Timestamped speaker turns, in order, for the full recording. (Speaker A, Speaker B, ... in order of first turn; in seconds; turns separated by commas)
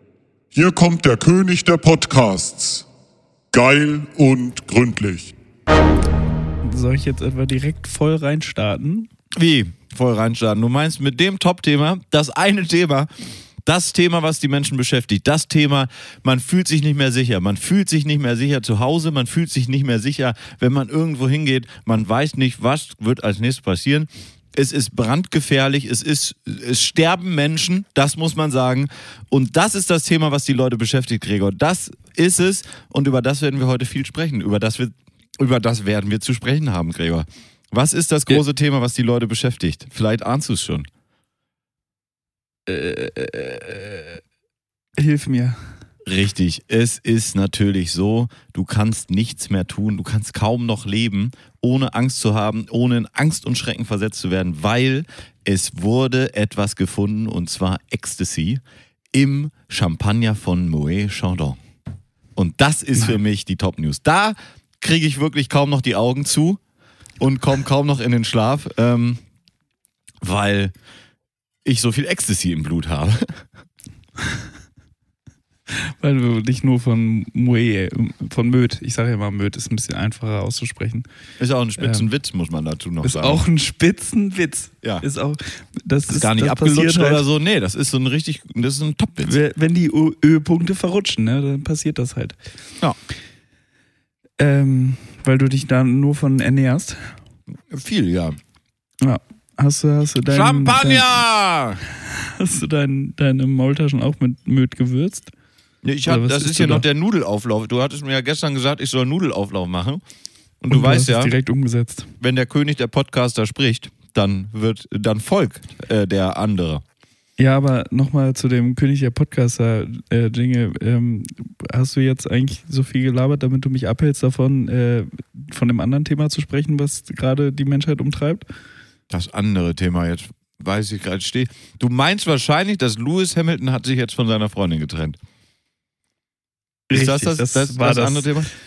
Speaker A: 0.5-2.9, Speaker A: 3.5-5.3, Speaker B: 6.6-9.1, Speaker C: 9.3-13.1, Speaker C: 13.7-40.9, Speaker B: 42.7-44.2, Speaker B: 45.0-45.6, Speaker C: 46.0-58.6, Speaker C: 59.1-61.6, Speaker C: 62.4-66.6, Speaker C: 67.2-69.2, Speaker C: 70.2-70.7, Speaker C: 71.7-73.4, Speaker B: 75.7-81.1, Speaker C: 81.4-83.4, Speaker B: 81.8-82.1, Speaker B: 83.0-87.2, Speaker C: 86.1-89.3, Speaker B: 89.2-92.4, Speaker B: 94.4-97.2, Speaker C: 97.7-98.4, Speaker B: 99.0-101.1, Speaker C: 100.3-101.8, Speaker B: 102.2-105.3, Speaker C: 105.8-110.0, Speaker B: 106.1-106.8, Speaker C: 110.6-111.3, Speaker B: 110.7-112.1, Speaker C: 112.2-116.8, Speaker B: 117.4-128.5, Speaker C: 129.1-135.2, Speaker B: 136.9-138.3, Speaker C: 136.9-138.5